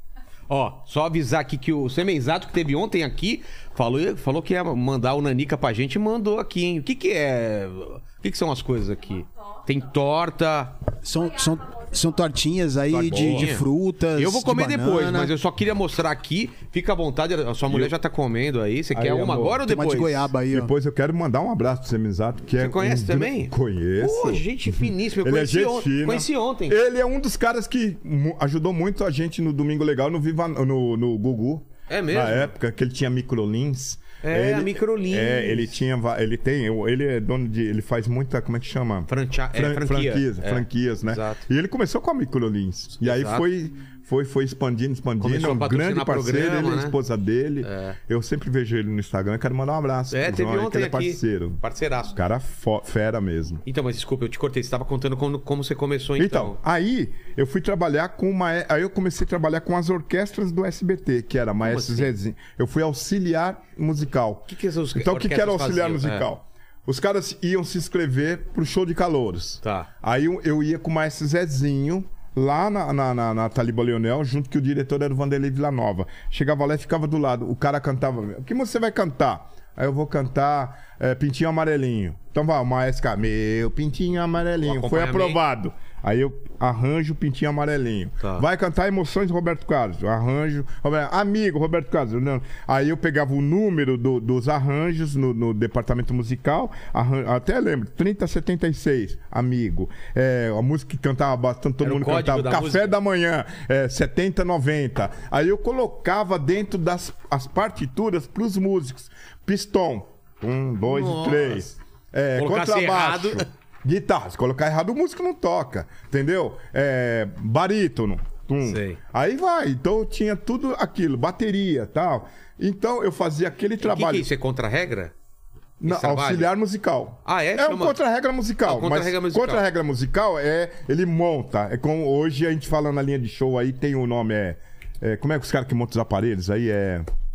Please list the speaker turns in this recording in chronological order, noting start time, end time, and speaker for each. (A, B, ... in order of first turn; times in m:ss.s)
0:00.5-0:10.8 A
0:11.0-0:15.3 B
0:12.9-0:20.3 A
0:17.7-0:18.0 C
0:18.9-0:19.7 C
0:19.6-0:20.7 B
0:20.5-0:53.6 C
0:22.6-0:26.8 A
0:31.9-0:32.5 A
0:34.2-0:35.7 A
0:39.1-0:41.4 A
0:43.0-0:43.4 A
0:45.2-0:47.0 A
0:47.6-0:48.0 A
0:50.1-0:52.1 A
0:53.6-0:56.6 A
0:56.2-2:04.3 C
1:01.6-1:02.1 A
1:04.5-1:06.3 A
1:09.6-1:09.9 A
1:24.6-1:25.4 A
1:41.8-1:42.9 A
1:50.8-1:51.6 A
1:52.4-1:53.5 A
1:58.6-1:59.0 A
2:03.8-2:05.1 A
2:05.8-2:17.1 C
2:05.8-2:06.5 A
2:07.2-2:08.0 A
2:08.6-2:09.6 A